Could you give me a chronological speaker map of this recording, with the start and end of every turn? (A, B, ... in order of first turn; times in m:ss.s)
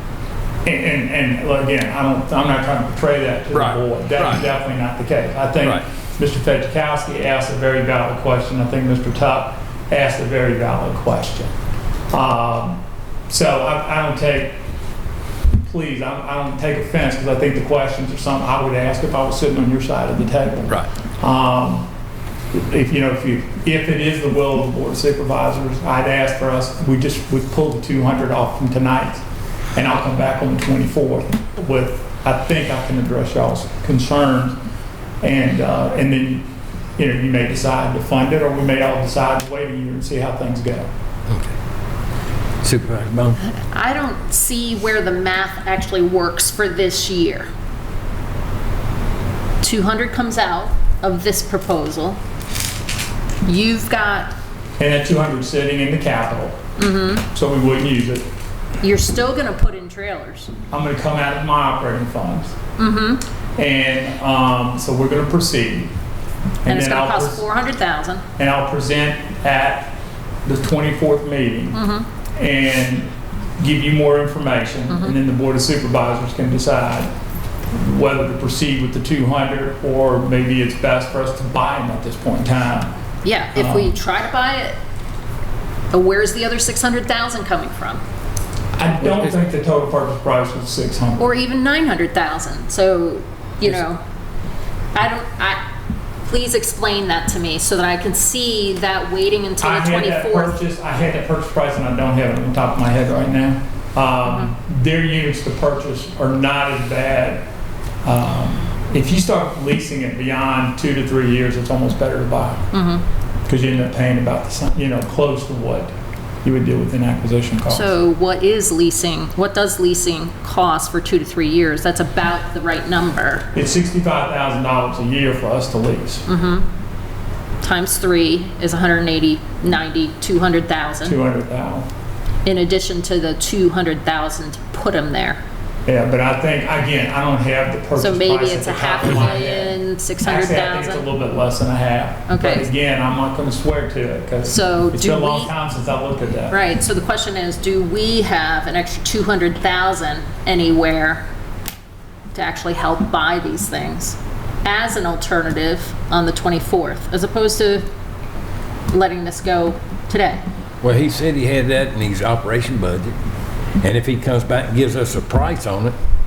0:00.6-0:11.5 A
0:03.5-0:04.5 B
0:05.6-0:05.8 B
0:12.1-0:14.6 A
0:15.6-0:21.9 A
0:22.5-0:29.2 A
0:29.8-0:34.6 A
0:35.2-0:36.5 A
0:37.0-0:40.9 A
0:41.3-0:41.5 B
0:42.6-0:43.4 B
0:43.7-0:47.5 C
0:49.6-0:52.2 C
0:53.4-0:54.3 C
0:54.8-0:56.6 A
0:56.8-0:57.3 C
0:57.3-0:58.3 A
0:58.8-1:00.5 C
1:00.7-1:02.6 A
1:02.8-1:03.2 C
1:03.6-1:05.9 A
1:06.6-1:07.4 A
1:06.7-1:08.2 C
1:08.4-1:10.0 A
1:10.4-1:11.8 A
1:11.7-1:12.1 C
1:12.3-1:17.1 A
1:14.9-1:15.1 C
1:17.7-1:22.9 A
1:23.2-1:24.8 C
1:23.6-1:23.9 A
1:25.9-1:28.0 C
1:28.8-1:31.3 A
1:29.0-1:29.4 B
1:31.2-1:34.0 C
1:35.0-1:35.6 C
1:36.2-1:40.6 C
1:39.6-1:47.4 A
1:44.2-1:44.5 C
1:48.0-1:52.6 A
1:52.7-1:53.0 C
1:53.5-1:55.9 A
1:56.4-1:57.9 A
1:57.7-2:03.4 C
2:03.6-2:06.2 A
2:06.3-2:06.7 C
2:07.6-2:11.2 C
2:11.0-2:11.9 A
2:12.4-2:15.4 C
2:15.8-2:26.6 A
2:18.0-2:21.1 C
2:22.3-2:22.7 C
2:24.4-2:25.5 C
2:26.5-2:31.2 C
2:32.3-2:37.9 C
2:38.9-2:40.4 C
2:40.8-2:43.2 B
2:43.8-2:45.9 B